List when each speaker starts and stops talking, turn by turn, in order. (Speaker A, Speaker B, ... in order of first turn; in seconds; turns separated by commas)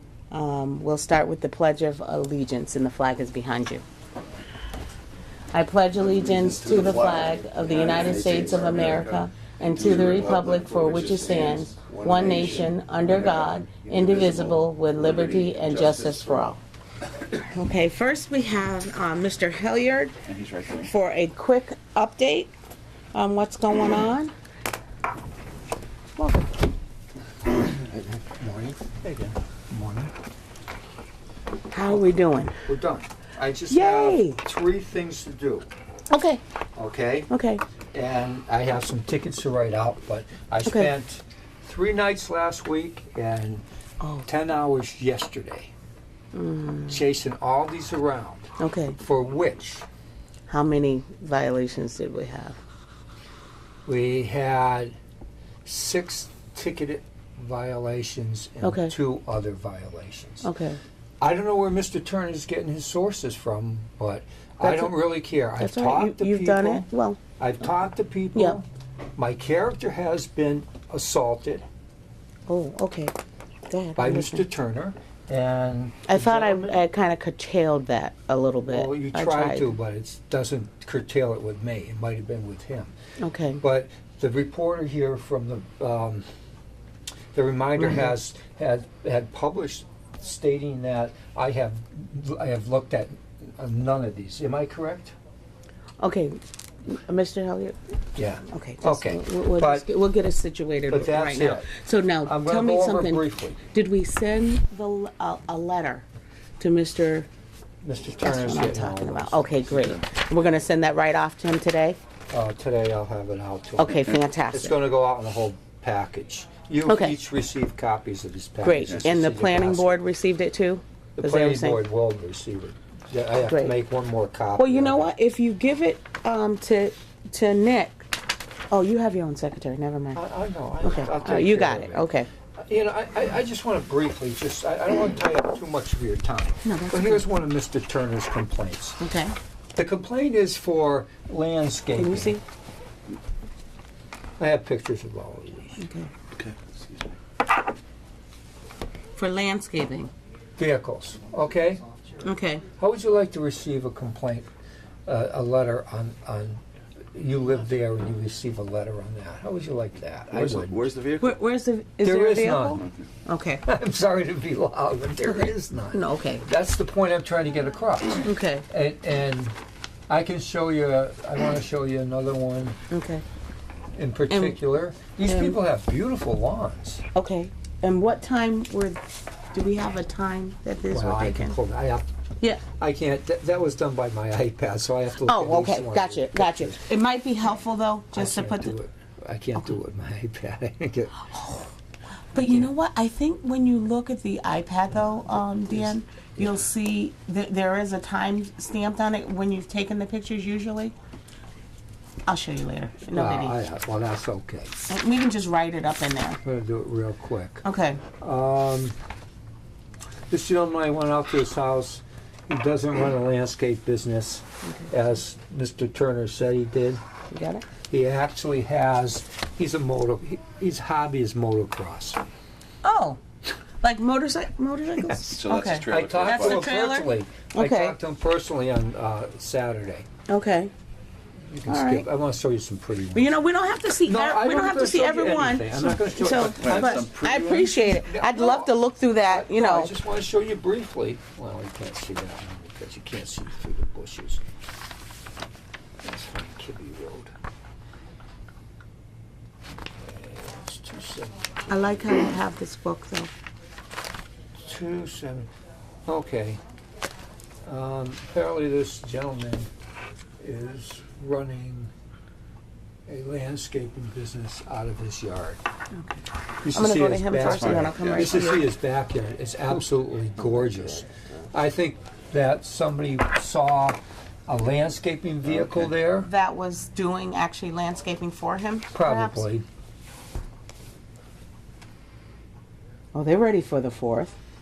Speaker A: 0.3-3.8, Speaker A: 5.5-16.6, Speaker B: 6.1-16.5, Speaker A: 17.3-20.2, Speaker B: 20.3-20.9, Speaker A: 20.8-22.5, Speaker A: 23.1-24.3, Speaker A: 26.2-26.6, Speaker C: 27.7-30.1, Speaker A: 31.7-32.6, Speaker C: 32.6-35.7, Speaker A: 33.7-34.4, Speaker A: 36.1-36.4, Speaker C: 36.8-37.3, Speaker A: 37.3-37.6, Speaker C: 37.9-43.6, Speaker A: 40.6-40.9, Speaker A: 44.0-44.3, Speaker C: 44.2-45.7, Speaker A: 46.3-47.0, Speaker C: 46.9-49.9, Speaker A: 48.6-49.0, Speaker A: 50.5-52.6, Speaker C: 53.9-54.9, Speaker C: 55.6-60.5, Speaker A: 58.6-58.9, Speaker A: 60.4-60.8, Speaker C: 61.2-66.9, Speaker A: 64.6-65.0, Speaker A: 65.6-67.2, Speaker C: 67.4-68.7, Speaker A: 68.3-68.6, Speaker C: 69.2-71.6, Speaker A: 72.5-73.1, Speaker A: 73.7-74.5, Speaker C: 74.0-76.8, Speaker A: 76.1-79.7, Speaker C: 78.7-82.9, Speaker A: 83.2-83.6, Speaker C: 83.6-86.2, Speaker C: 87.3-95.1, Speaker A: 87.8-88.1, Speaker A: 96.0-97.8, Speaker C: 98.2-99.8, Speaker A: 98.5-106.0, Speaker C: 100.9-101.7, Speaker C: 102.2-103.6, Speaker A: 106.6-107.3, Speaker C: 107.8-110.0, Speaker A: 108.2-112.0, Speaker C: 112.3-120.0, Speaker A: 113.8-114.8, Speaker A: 116.8-117.2, Speaker A: 118.6-121.8, Speaker C: 121.2-125.1, Speaker A: 123.4-123.8, Speaker A: 124.6-128.1, Speaker A: 128.7-130.2, Speaker C: 130.1-139.0, Speaker A: 130.8-132.3, Speaker A: 136.6-137.3, Speaker A: 139.0-139.3, Speaker C: 139.8-142.4, Speaker A: 141.9-142.4, Speaker C: 144.4-145.8, Speaker A: 145.8-146.1, Speaker B: 146.3-147.0, Speaker A: 149.2-150.1, Speaker C: 150.6-151.8, Speaker A: 152.2-152.6, Speaker C: 152.8-154.5, Speaker C: 155.1-156.6, Speaker C: 157.1-160.9, Speaker B: 160.3-161.4, Speaker A: 161.2-163.6, Speaker C: 162.0-162.8, Speaker C: 163.7-169.6, Speaker A: 165.2-166.4, Speaker A: 168.2-168.7, Speaker C: 170.1-172.8, Speaker A: 172.9-173.2, Speaker C: 173.9-177.0, Speaker A: 174.3-174.6, Speaker A: 175.2-175.6, Speaker A: 177.1-181.6, Speaker C: 180.9-182.1, Speaker C: 182.7-186.9, Speaker A: 185.2-188.8, Speaker C: 188.1-191.3, Speaker A: 191.2-191.7, Speaker A: 192.3-200.9, Speaker C: 192.3-192.7, Speaker A: 202.2-203.6, Speaker C: 203.1-204.7, Speaker A: 204.9-206.4, Speaker C: 206.4-207.6, Speaker A: 207.6-208.0, Speaker C: 208.2-208.9, Speaker C: 210.3-217.0, Speaker A: 217.3-217.7, Speaker C: 217.9-222.2, Speaker A: 222.8-223.2, Speaker A: 223.8-227.9, Speaker B: 225.2-226.6, Speaker C: 225.8-230.1, Speaker A: 230.3-230.7, Speaker C: 231.5-233.3, Speaker A: 231.7-232.1, Speaker A: 233.1-239.9, Speaker C: 234.0-238.8, Speaker B: 236.4-237.3, Speaker C: 239.3-244.4, Speaker C: 246.0-247.3, Speaker C: 249.8-252.1, Speaker A: 251.7-253.3, Speaker C: 254.6-255.5, Speaker C: 256.1-256.6, Speaker C: 257.6-259.7, Speaker C: 260.4-261.9, Speaker C: 263.1-265.6, Speaker C: 266.6-276.3, Speaker A: 266.7-268.7, Speaker B: 267.4-268.3, Speaker A: 276.2-279.5, Speaker C: 278.9-279.6, Speaker A: 283.1-284.4